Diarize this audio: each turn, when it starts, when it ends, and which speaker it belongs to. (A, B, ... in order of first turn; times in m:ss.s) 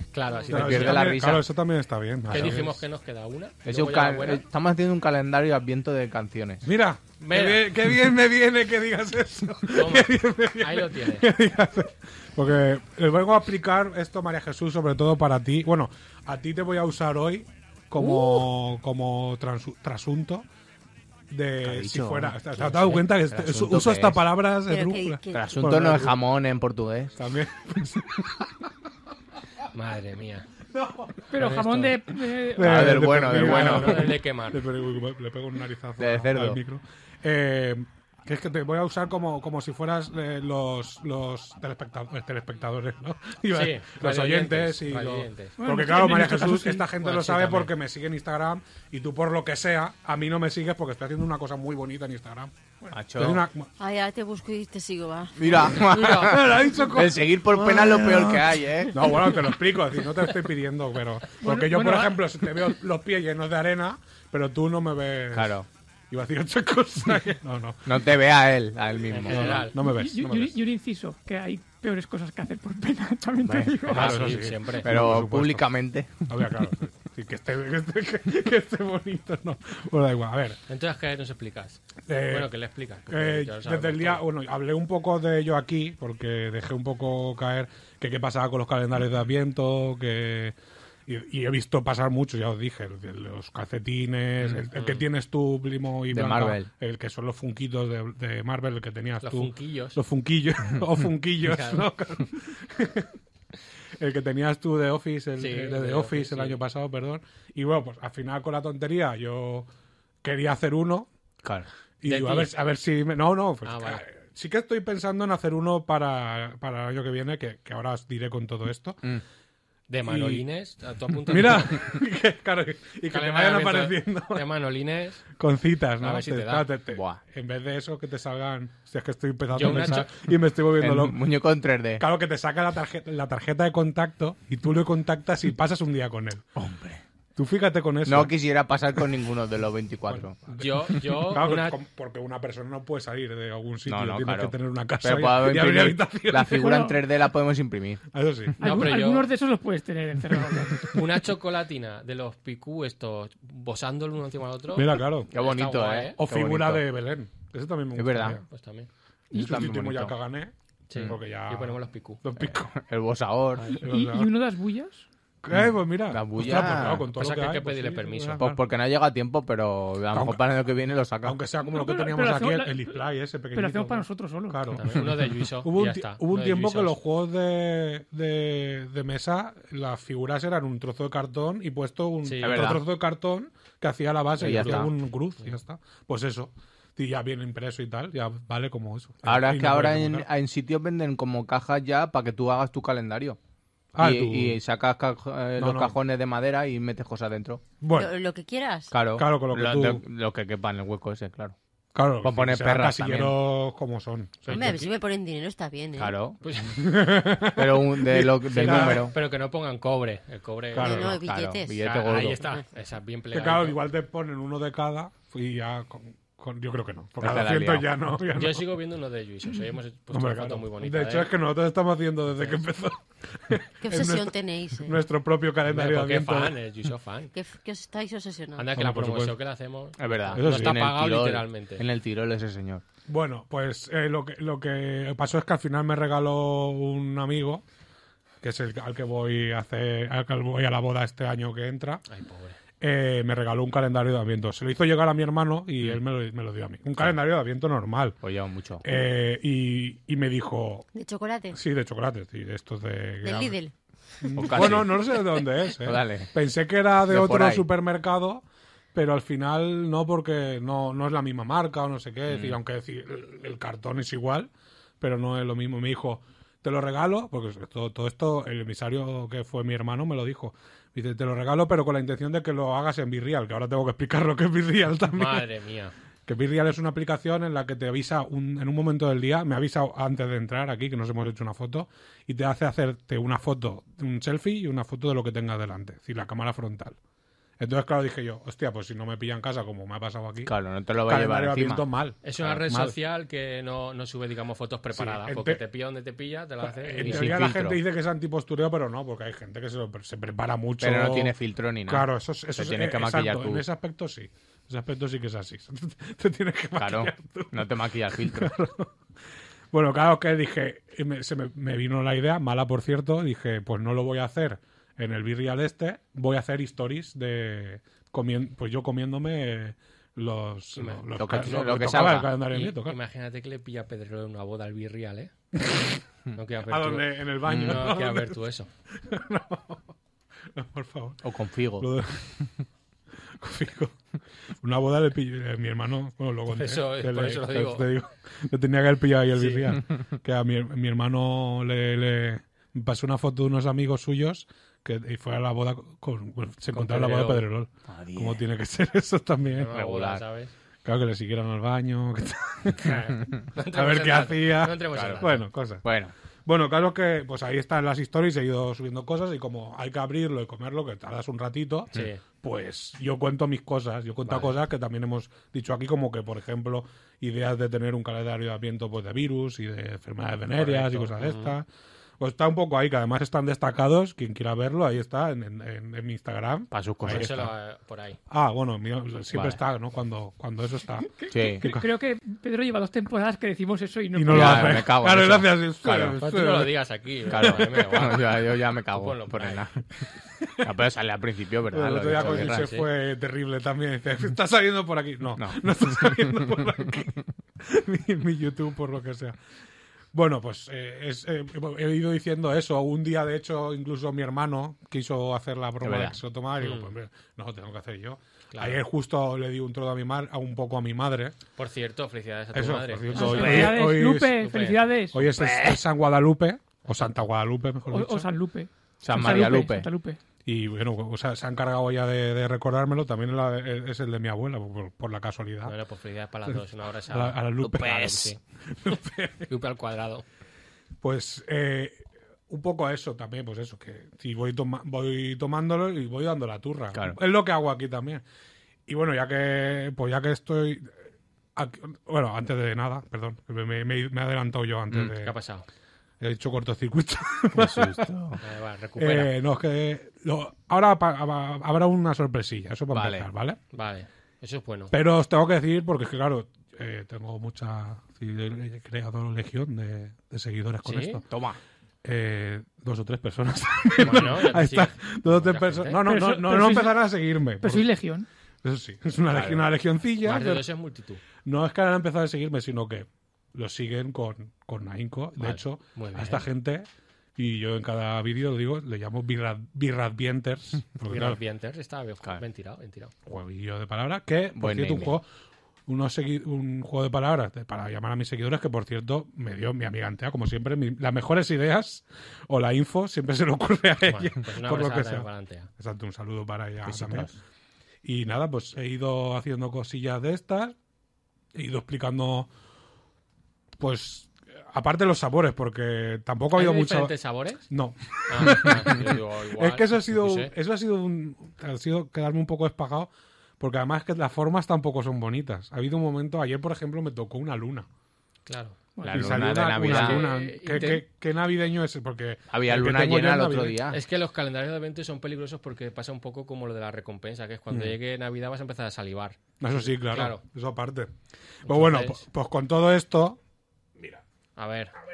0:00.1-0:01.2 A
0:00.5-0:01.5 B
0:00.5-0:02.8 C
0:02.3-0:04.4 A
0:03.6-0:06.6 B
0:06.6-0:20.5 C
0:07.2-0:07.7 A
0:09.7-0:11.3 A
0:21.3-0:26.2 C
0:21.6-0:24.3 B
0:24.8-0:25.4 D
0:25.3-0:27.2 B
0:27.2-0:28.7 C
0:29.7-0:30.5 A
0:30.7-0:31.3 C
0:31.3-0:33.1 E
0:31.3-0:32.0 A
0:32.5-0:52.5 C
0:32.6-0:34.1 B
0:33.2-0:34.6 A
0:36.0-0:36.6 B
0:43.5-0:45.6 A
0:45.6-0:46.9 E
0:47.0-0:47.7 A
0:52.9-0:53.4 B
0:53.2-0:53.7 C
0:53.8-0:55.3 D
0:55.4-0:59.4 B
0:55.6-1:05.6 C
0:55.9-0:56.4 A
1:01.4-1:02.3 E
1:05.3-1:05.7 B
1:06.1-1:08.0 C
1:07.9-1:09.6 B
1:09.1-1:09.8 A
1:09.3-1:10.6 C
1:09.8-1:14.2 E
1:13.4-1:13.8 B
1:13.9-1:15.7 C
1:13.9-1:14.9 A
1:14.8-1:16.1 B
1:16.3-1:20.6 C
1:20.7-1:24.2 A
1:22.1-1:22.5 C
1:23.1-1:30.6 C
1:31.1-1:43.1 C
1:34.5-1:35.0 A
1:36.1-1:36.7 B
1:39.2-1:40.0 A
1:41.5-1:41.8 A
1:44.0-1:49.7 C
1:45.4-1:46.6 A
1:50.2-1:51.1 C
1:51.4-1:51.7 B
1:52.0-1:59.0 C
1:52.0-1:52.5 A
1:53.6-1:54.0 A
1:59.9-2:01.8 A
2:00.0-2:00.4 C
2:01.3-2:04.5 C
2:03.1-2:05.2 A
2:05.3-2:11.2 C
2:06.0-2:06.7 A
2:06.9-2:07.2 B
2:09.5-2:10.1 A
2:10.8-2:12.0 B
2:12.0-2:16.5 C
2:16.6-2:17.0 B
2:17.4-2:18.3 C
2:18.1-2:20.4 B
2:20.1-2:26.7 C
2:20.6-2:21.8 A
2:23.9-2:28.0 B
2:26.5-2:27.0 E
2:28.1-2:28.6 C
2:28.6-2:31.0 E
2:28.6-2:29.3 A
2:30.9-2:36.2 A
2:34.7-2:35.3 C
2:35.3-2:36.9 B
2:36.2-2:38.4 C
2:38.0-2:38.4 B
2:38.2-2:38.9 A
2:39.3-2:40.2 B
2:39.3-2:42.8 C
2:40.9-2:42.2 A
2:42.5-2:43.7 B
2:43.8-2:44.3 C
2:43.8-2:45.1 E
2:45.4-2:48.6 C
2:45.5-2:47.1 B
2:47.1-2:48.4 A
2:48.4-2:51.4 B
2:50.1-2:50.4 C
2:51.2-3:10.3 C
2:51.6-2:53.0 E
2:53.5-2:54.8 E
2:54.8-2:57.0 A
3:02.2-3:02.7 A
3:02.4-3:02.8 B
3:04.4-3:04.9 B
3:04.5-3:04.9 A
3:09.2-3:13.4 B
3:13.9-3:14.6 C
3:14.0-3:17.6 B
3:15.6-3:16.0 C
3:17.8-3:18.2 C
3:18.0-3:18.9 D
3:18.9-3:21.6 B
3:19.1-3:20.0 C
3:21.9-3:24.6 C
3:22.2-3:23.4 B
3:24.4-3:24.9 A
3:24.6-3:26.0 D
3:26.0-3:26.4 B
3:26.4-3:26.8 A
3:26.6-3:29.2 C
3:27.5-3:29.2 B
3:28.6-3:31.2 A
3:30.7-3:31.2 C
3:31.0-3:31.7 D
3:31.0-3:32.4 B
3:31.8-3:33.8 A
3:33.3-3:38.7 C
3:37.2-3:37.9 B
3:38.3-3:41.3 A
3:40.1-3:46.6 C
3:42.4-3:42.6 A
3:43.9-3:44.9 D
3:45.7-3:47.3 A
3:47.4-3:48.6 D
3:48.6-3:51.8 A
3:48.7-3:49.4 C
3:50.0-3:52.8 B
3:50.3-3:50.9 C
3:53.1-3:57.6 C
3:58.4-4:02.0 C
4:02.1-4:02.6 A
4:02.8-4:08.2 C
4:08.2-4:08.8 B
4:08.8-4:10.9 C
4:11.0-4:11.6 D
4:11.5-4:13.6 C
4:13.2-4:13.7 D
4:14.2-4:35.5 C
4:14.4-4:15.2 B
4:15.8-4:16.3 B
4:17.1-4:17.7 B
4:22.3-4:22.6 B
4:35.1-4:35.9 A
4:36.3-4:47.0 C
4:47.6-4:53.0 C
4:50.4-4:51.9 B
4:52.2-4:57.4 A
4:54.9-4:55.6 C
4:56.6-5:01.4 C
4:57.0-4:57.8 B
5:00.8-5:03.6 B
5:01.9-5:09.0 C
5:06.8-5:08.5 B
5:09.7-5:23.0 C
5:20.8-5:25.3 A
5:21.2-5:22.3 B
5:25.6-5:26.0 C
5:26.4-5:28.7 A
5:26.7-5:28.4 C
5:27.5-5:27.8 B
5:28.9-5:29.9 C
5:30.5-5:31.2 C
5:31.2-5:31.9 B
5:31.8-5:32.6 C
5:33.4-5:34.0 C
5:34.6-5:49.7 C
5:36.5-5:37.9 A
5:39.4-5:39.8 A
5:46.7-5:47.4 A
5:47.9-5:48.4 B
5:49.5-5:50.5 A
5:49.7-5:50.2 B
5:50.8-5:55.8 C
5:52.8-5:55.4 A
5:54.9-5:55.2 B
5:55.8-5:56.1 B
5:56.5-6:11.7 C
6:01.9-6:02.2 A
6:10.6-6:11.6 A
6:12.2-6:17.5 C
6:16.7-6:17.5 B
6:17.1-6:18.2 A
6:18.3-6:21.9 C
6:19.3-6:19.6 B
6:21.2-6:24.9 E
6:21.3-6:21.6 B
6:24.1-6:26.7 C
6:24.3-6:26.2 B
6:26.2-6:29.6 A
6:27.3-6:29.8 B
6:30.4-6:30.7 C
6:30.6-6:32.6 B
6:31.7-6:39.4 C
6:32.1-6:32.9 A
6:35.4-6:36.2 B
6:40.1-6:51.4 C
6:45.8-6:46.2 B
6:46.6-6:46.9 A
6:48.5-6:48.8 A
6:51.6-6:53.8 A
6:52.5-6:54.4 C
6:53.1-6:55.3 E
6:54.4-6:54.8 A
6:55.1-6:58.3 C
6:55.4-6:55.8 B
6:56.9-6:57.2 A
6:57.9-7:00.2 E
6:59.0-6:59.9 B
7:00.4-7:05.8 C
7:05.6-7:08.4 A
7:06.5-7:09.5 C
7:07.6-7:08.3 B
7:09.5-7:10.2 A
7:11.0-7:18.2 C
7:18.9-7:21.0 C
7:21.6-7:25.4 C
7:25.2-7:25.7 A
7:26.2-7:28.1 C
7:27.6-7:28.4 B
7:28.4-7:29.3 A
7:29.0-7:33.6 C
7:32.9-7:33.3 B
7:33.7-7:34.9 A
7:34.9-7:41.3 C
7:40.8-7:41.2 A
7:41.3-7:41.6 B
7:42.0-7:47.9 C
7:44.0-7:46.0 A
7:46.0-7:47.1 E
7:47.6-7:48.3 E
7:48.6-7:50.7 C
7:49.3-7:49.6 B
7:50.2-7:51.2 A
7:51.4-8:01.4 C
7:55.4-7:56.5 A
8:01.1-8:03.1 A
8:03.3-8:05.2 C
8:04.6-8:05.2 B
8:05.9-8:17.3 C
8:14.0-8:15.7 A
8:16.9-8:17.4 B
8:18.0-8:20.8 C
8:21.5-8:22.5 C
8:23.8-8:27.2 C
8:26.5-8:27.7 A
8:27.7-8:37.9 C
8:28.2-8:30.5 A
8:38.5-8:38.8 A
8:39.0-8:39.4 E
8:39.0-8:40.2 B
8:39.1-8:43.8 C
8:39.8-8:41.0 A
8:42.5-8:44.0 B
8:43.9-8:50.4 A
8:49.6-8:51.1 C
8:51.6-8:53.4 C
8:51.7-8:52.2 A
8:54.0-8:54.2 C
8:54.6-8:55.0 A